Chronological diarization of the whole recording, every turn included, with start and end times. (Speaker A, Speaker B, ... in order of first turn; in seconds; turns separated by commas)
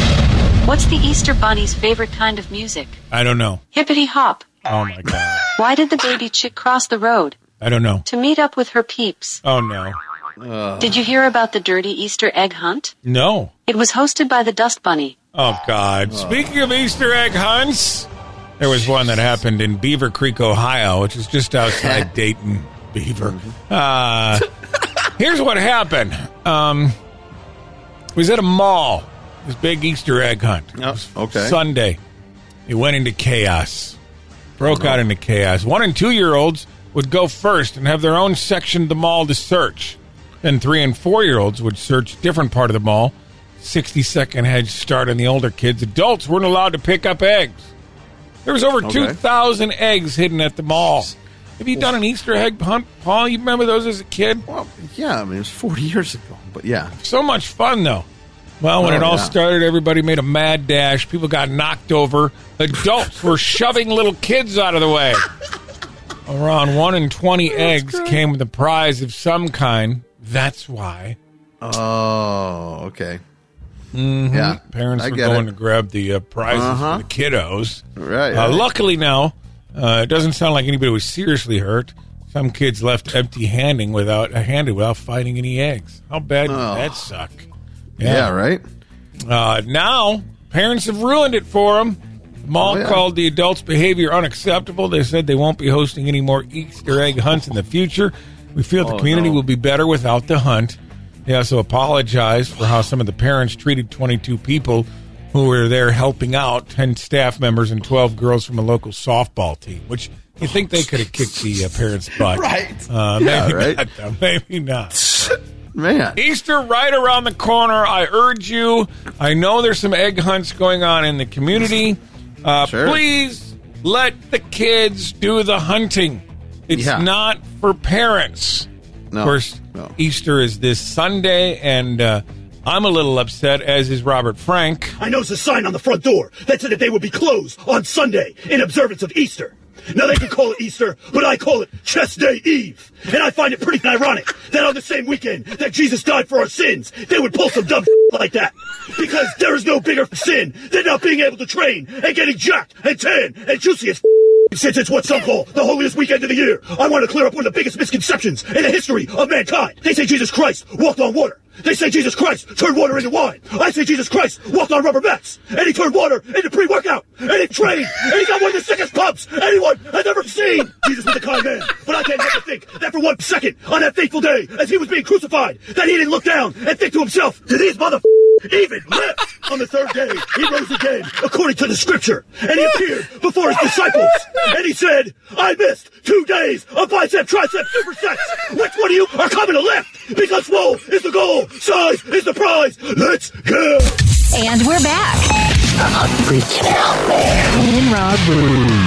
Speaker A: 0.6-3.0, Speaker B: 3.1-3.6, Speaker A: 3.7-4.5, Speaker B: 4.7-5.5, Speaker A: 5.6-7.4, Speaker B: 7.6-8.1, Speaker A: 8.1-9.4, Speaker B: 9.4-9.9, Speaker C: 10.4-11.0, Speaker A: 10.8-12.9, Speaker B: 13.0-13.5, Speaker A: 13.7-15.1, Speaker B: 15.3-18.1, Speaker C: 16.1-16.5, Speaker B: 18.6-24.5, Speaker C: 21.6-22.1, Speaker C: 23.2-23.5, Speaker B: 25.1-26.9, Speaker B: 28.1-32.0, Speaker C: 30.8-31.6, Speaker B: 32.7-34.0, Speaker C: 34.6-35.0, Speaker B: 34.6-47.7, Speaker B: 48.4-54.5, Speaker C: 48.8-49.2, Speaker C: 54.5-56.9, Speaker B: 57.0-58.0, Speaker B: 58.6-65.2, Speaker C: 58.8-59.3, Speaker B: 66.3-71.2, Speaker C: 67.6-68.2, Speaker C: 71.6-73.2, Speaker B: 73.9-87.5, Speaker C: 74.3-75.5, Speaker C: 76.5-77.0, Speaker C: 78.0-78.6, Speaker C: 86.5-87.0, Speaker B: 88.0-88.3, Speaker C: 88.0-88.6, Speaker B: 89.3-115.4, Speaker C: 92.6-93.0, Speaker C: 98.8-99.4, Speaker C: 112.2-113.8, Speaker C: 115.7-116.2, Speaker B: 116.2-128.7, Speaker C: 122.6-123.0, Speaker C: 126.7-127.1, Speaker C: 129.1-129.9, Speaker B: 129.2-134.9, Speaker D: 135.0-194.0, Speaker E: 194.3-195.3, Speaker E: 197.5-198.5